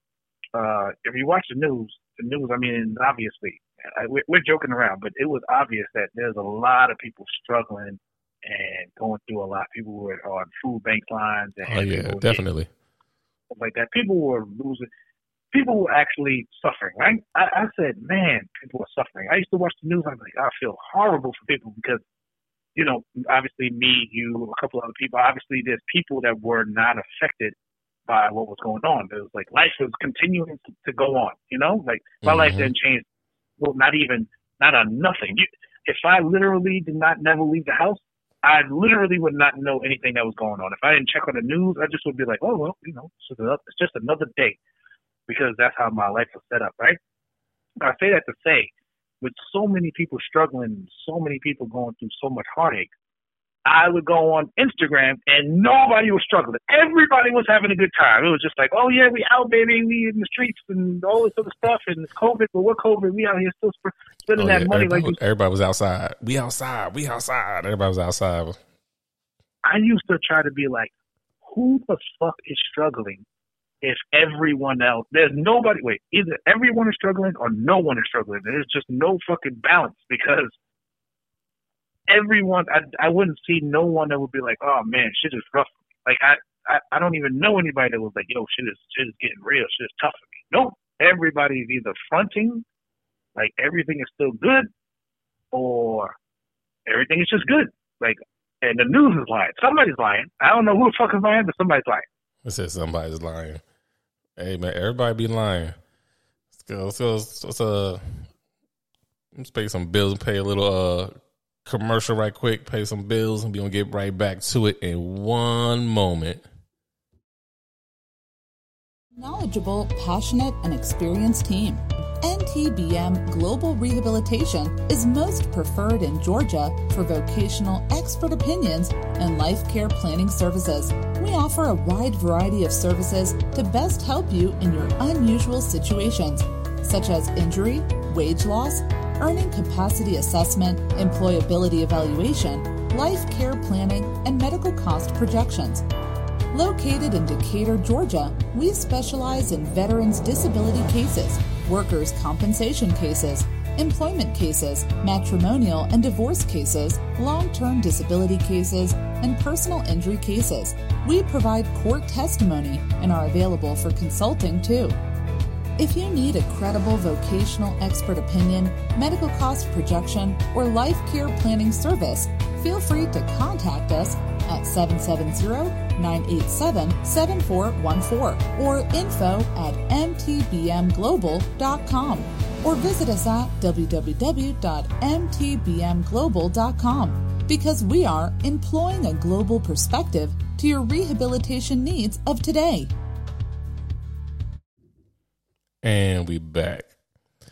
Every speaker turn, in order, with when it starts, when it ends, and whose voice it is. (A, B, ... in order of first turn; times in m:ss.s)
0:00.6-0:12.4 A
0:11.7-0:12.7 B
0:13.5-0:14.9 A
0:15.5-0:22.0 A
0:22.7-0:27.5 A
0:28.1-0:33.1 A
0:32.2-0:32.7 B
0:33.6-0:44.6 A
0:45.3-0:47.0 A
0:47.8-0:52.9 A
0:53.6-1:05.2 A
1:04.4-1:08.6 B
1:09.6-1:10.9 A
1:11.4-1:13.2 A
1:13.8-1:20.6 A
1:22.1-1:32.6 A
1:33.3-1:34.7 A
1:35.5-1:36.2 A
1:36.9-1:42.0 A
1:42.4-1:43.6 B
1:44.4-1:45.8 B
1:46.5-1:48.3 B
1:49.3-1:51.1 B
1:51.6-1:56.4 B
1:59.2-2:25.8 C
2:26.5-2:45.0 C
2:45.8-3:12.9 C
3:15.8-3:16.9 B